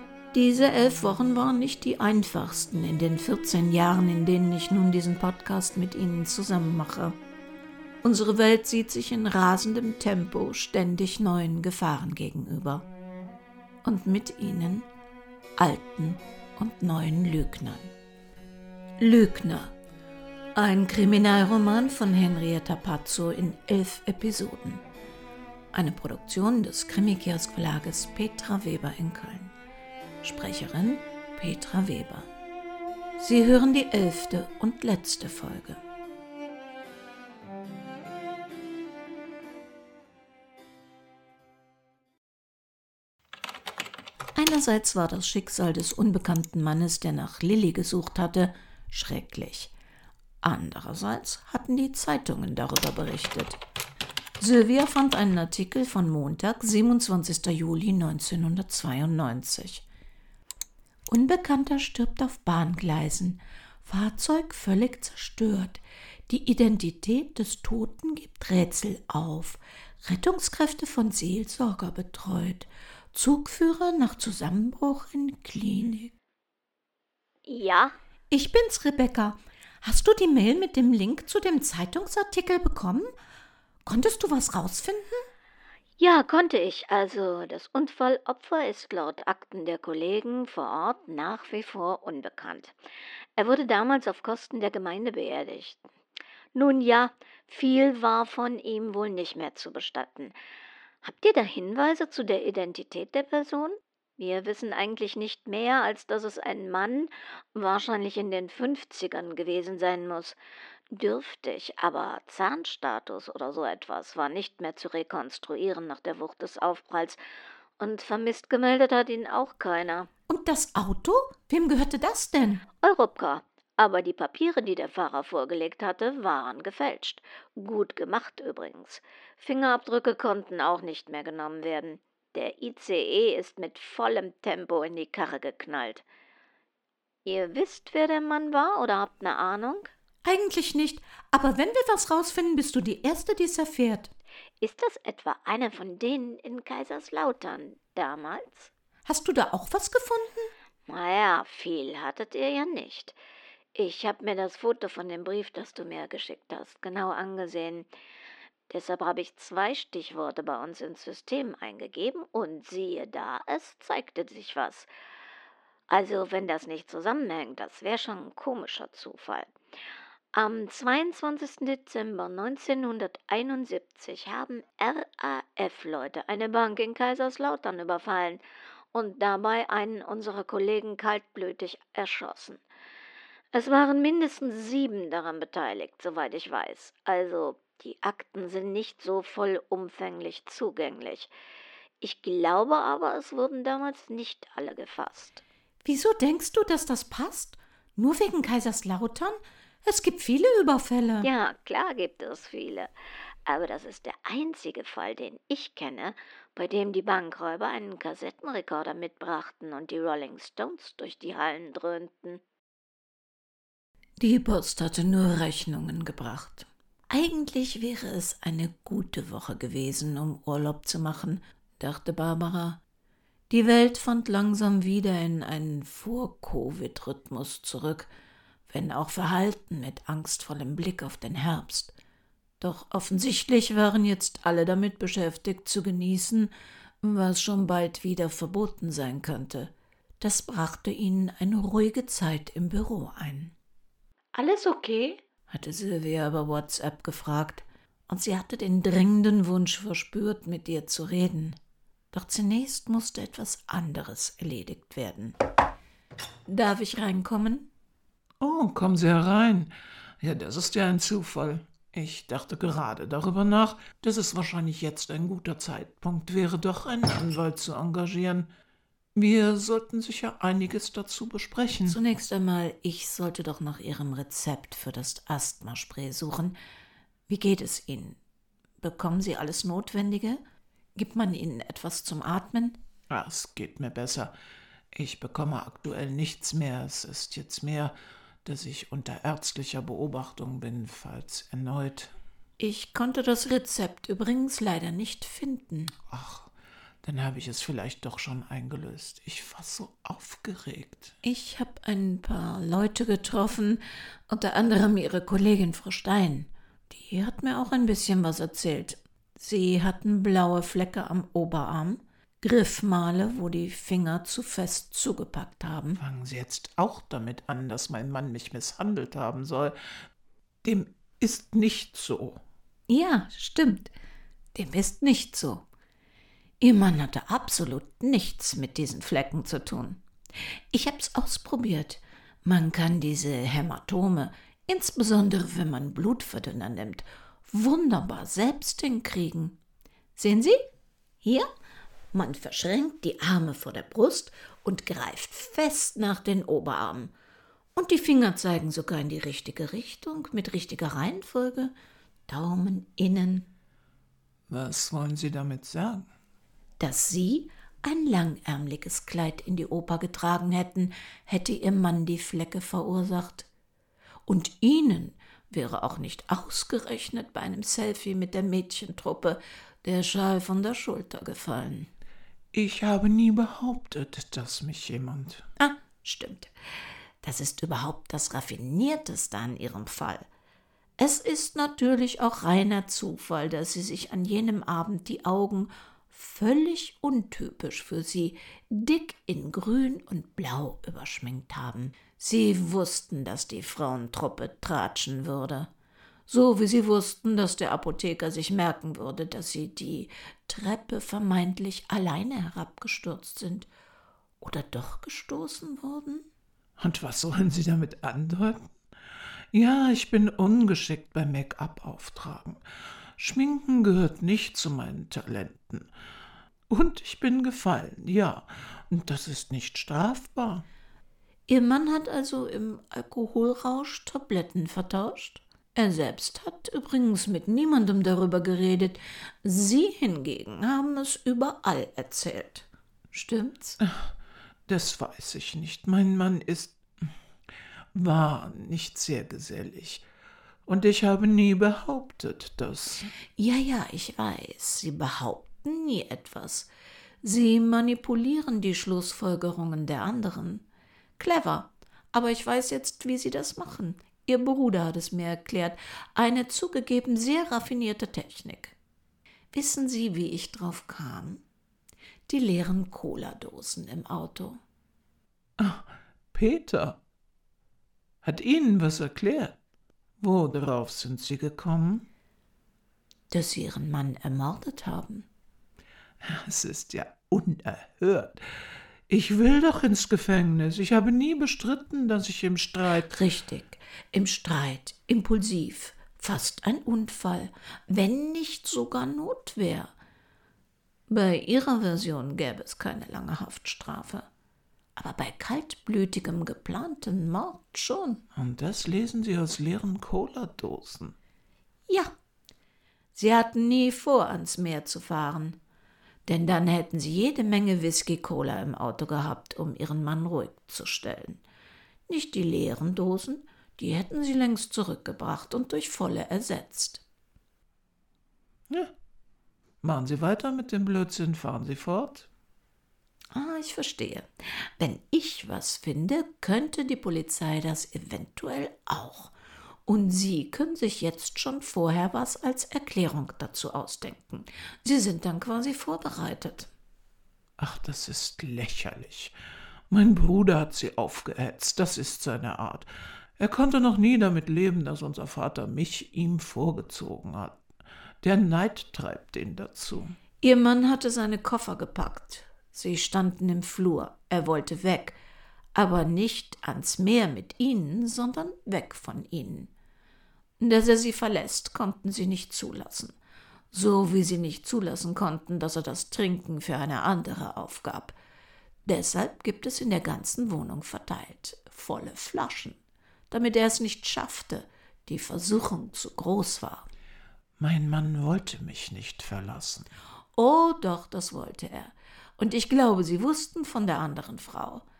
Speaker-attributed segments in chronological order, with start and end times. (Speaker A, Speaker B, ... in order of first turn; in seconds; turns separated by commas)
Speaker A: 0.3-7.2, Speaker A: 8.0-12.9, Speaker A: 13.8-14.9, Speaker A: 15.6-17.9, Speaker A: 19.0-19.7, Speaker A: 20.5-24.8, Speaker A: 25.7-29.5, Speaker A: 30.2-32.3, Speaker A: 33.2-35.8, Speaker A: 44.3-49.7, Speaker A: 50.4-53.6, Speaker A: 54.4-59.8, Speaker A: 61.1-76.1, Speaker B: 77.5-78.0, Speaker A: 78.3-83.1, Speaker A: 83.8-85.3, Speaker B: 86.0-92.8, Speaker B: 93.3-95.8, Speaker B: 96.5-100.3, Speaker B: 101.0-110.4, Speaker B: 110.9-117.2, Speaker B: 117.8-120.1, Speaker A: 120.3-122.6, Speaker B: 122.8-136.0, Speaker B: 137.2-139.9, Speaker A: 140.2-144.1, Speaker B: 144.6-148.7, Speaker A: 149.1-150.5, Speaker B: 150.9-153.2, Speaker B: 153.7-157.9, Speaker B: 158.7-164.9, Speaker B: 165.9-169.5, Speaker B: 170.3-178.4, Speaker B: 178.9-182.6, Speaker B: 183.5-191.3, Speaker B: 192.0-195.4, Speaker A: 195.8-201.3, Speaker B: 201.2-202.9, Speaker B: 203.4-212.4, Speaker A: 214.2-222.8, Speaker A: 223.5-228.1, Speaker A: 228.7-231.9, Speaker A: 232.6-243.5, Speaker B: 244.3-245.2, Speaker A: 245.5-251.6, Speaker A: 252.1-255.3, Speaker A: 256.5-257.7, Speaker C: 258.4-268.5, Speaker C: 269.1-272.0, Speaker A: 271.9-276.6, Speaker A: 277.3-278.2, Speaker A: 278.8-280.4, Speaker A: 280.9-282.8, Speaker C: 283.1-284.3, Speaker C: 284.9-292.1, Speaker A: 292.6-295.9, Speaker C: 296.1-296.5, Speaker C: 297.0-301.1, Speaker A: 301.2-316.0, Speaker C: 316.0-319.7, Speaker C: 320.6-322.4, Speaker A: 322.9-323.9, Speaker A: 324.5-325.6, Speaker A: 326.6-330.0, Speaker A: 330.7-339.6, Speaker A: 340.1-340.6, Speaker A: 341.2-341.5, Speaker A: 342.1-347.1, Speaker A: 347.8-351.7, Speaker A: 352.3-353.5, Speaker C: 354.5-356.1, Speaker A: 356.8-363.5, Speaker A: 364.3-371.9, Speaker C: 372.5-375.4, Speaker A: 375.6-376.5, Speaker A: 377.2-380.2, Speaker A: 381.0-395.7, Speaker A: 396.3-403.7, Speaker A: 404.4-406.3, Speaker C: 406.8-408.7, Speaker C: 409.5-412.6, Speaker C: 413.2-415.9, Speaker C: 416.7-420.6, Speaker A: 421.5-433.8, Speaker C: 433.8-434.1, Speaker C: 434.7-437.1, Speaker C: 437.9-440.0, Speaker C: 440.6-443.1, Speaker A: 443.4-446.7, Speaker A: 447.2-450.6, Speaker A: 451.2-458.8, Speaker A: 459.5-461.4, Speaker A: 462.3-464.6, Speaker C: 465.6-467.0, Speaker C: 468.2-469.6, Speaker C: 470.2-472.1, Speaker A: 473.3-475.2, Speaker C: 476.2-478.4, Speaker C: 479.1-483.2, Speaker A: 483.1-489.9, Speaker A: 491.1-494.3, Speaker A: 494.9-498.2, Speaker C: 498.3-501.1, Speaker A: 501.9-502.1, Speaker A: 503.1-505.6, Speaker A: 506.3-511.4, Speaker A: 512.1-517.0, Speaker C: 519.8-522.3, Speaker A: 523.3-529.3, Speaker A: 529.9-536.7, Speaker C: 537.6-539.3, Speaker C: 539.9-547.6, Speaker C: 548.2-550.2, Speaker A: 550.4-555.2, Speaker A: 555.7-559.7, Speaker A: 560.6-563.1, Speaker A: 563.7-568.1, Speaker A: 568.9-572.8, Speaker A: 573.3-576.9, Speaker C: 577.6-579.9, Speaker A: 580.3-584.8